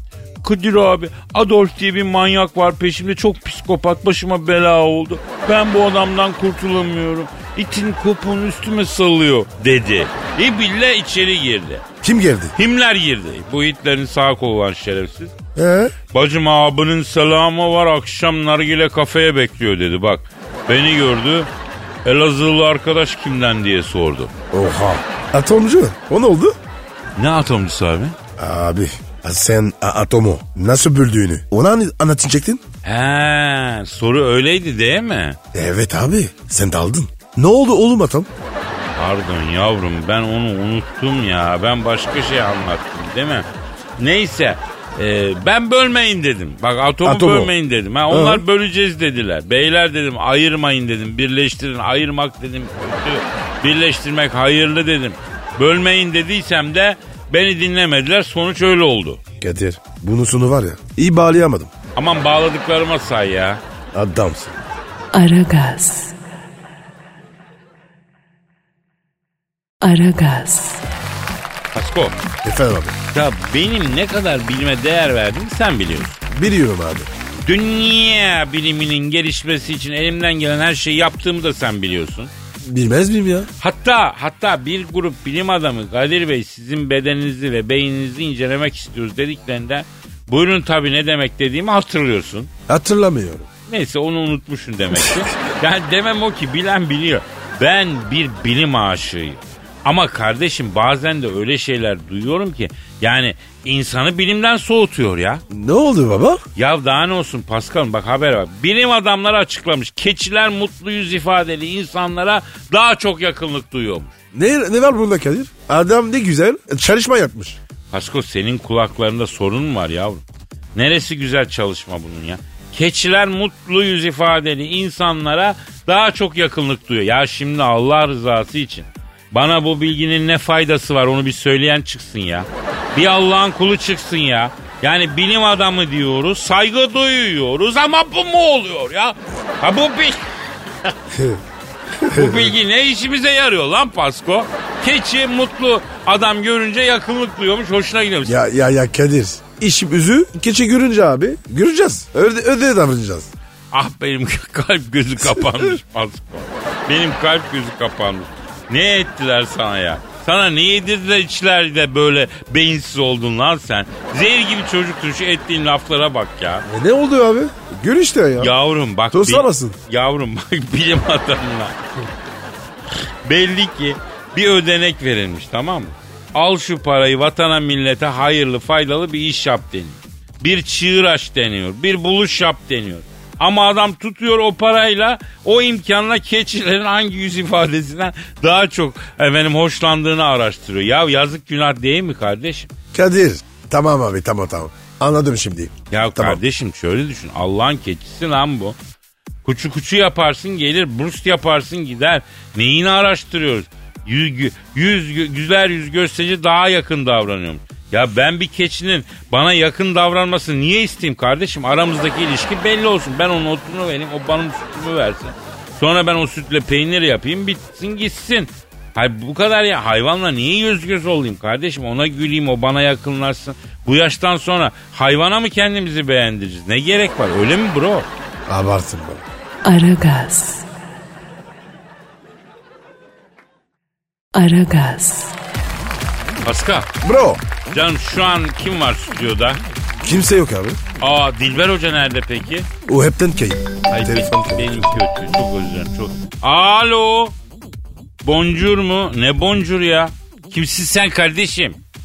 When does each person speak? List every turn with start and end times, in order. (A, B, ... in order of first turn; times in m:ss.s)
0:00.4-0:11.8 A
0:12.0-0:12.6 B
0:12.6-0:15.4 A
0:15.6-0:16.0 B
0:16.1-0:21.5 A
0:22.0-0:24.3 A
0:24.5-0:26.6 B
0:27.2-0:28.2 A
0:28.4-0:32.6 B
0:32.8-0:35.4 A
0:35.5-0:38.3 B
0:39.0-0:43.5 A
0:44.0-0:59.2 A
0:47.0-0:47.5 B
0:48.1-0:48.4 B
0:59.4-1:01.7 B
1:02.0-1:03.6 A
1:03.9-1:04.6 B
1:05.1-1:06.2 C
1:09.8-1:10.8 C
1:11.7-1:12.2 A
1:12.4-1:13.0 B
1:13.1-1:16.2 A
1:16.3-1:17.1 B
1:17.4-1:22.3 A
1:22.6-1:23.5 B
1:23.6-1:32.5 A
1:32.7-1:33.5 B
1:33.7-1:45.4 A
1:45.5-1:46.4 B
1:46.6-1:54.2 A
1:54.3-1:57.6 B
1:57.9-2:00.2 A
2:00.8-2:20.2 A
2:21.1-2:21.4 B
2:22.0-2:22.5 B
2:22.1-2:28.4 A
2:28.2-2:33.3 B
2:33.7-2:46.7 A
2:35.2-2:35.7 B
2:46.6-2:48.5 B
2:48.4-2:51.8 A
2:49.1-2:49.8 B
2:53.2-3:12.7 A
3:12.9-3:16.4 B
3:15.9-3:18.8 A
3:19.4-3:48.1 A
3:48.5-3:49.2 B
3:49.6-3:50.7 C
3:54.3-3:55.4 C
3:56.4-3:56.9 A
3:57.0-3:57.4 B
3:57.7-3:59.6 A
4:00.0-4:00.8 B
4:01.0-4:02.7 A
4:02.9-4:04.9 B
4:03.9-4:07.4 A
4:08.2-4:11.8 A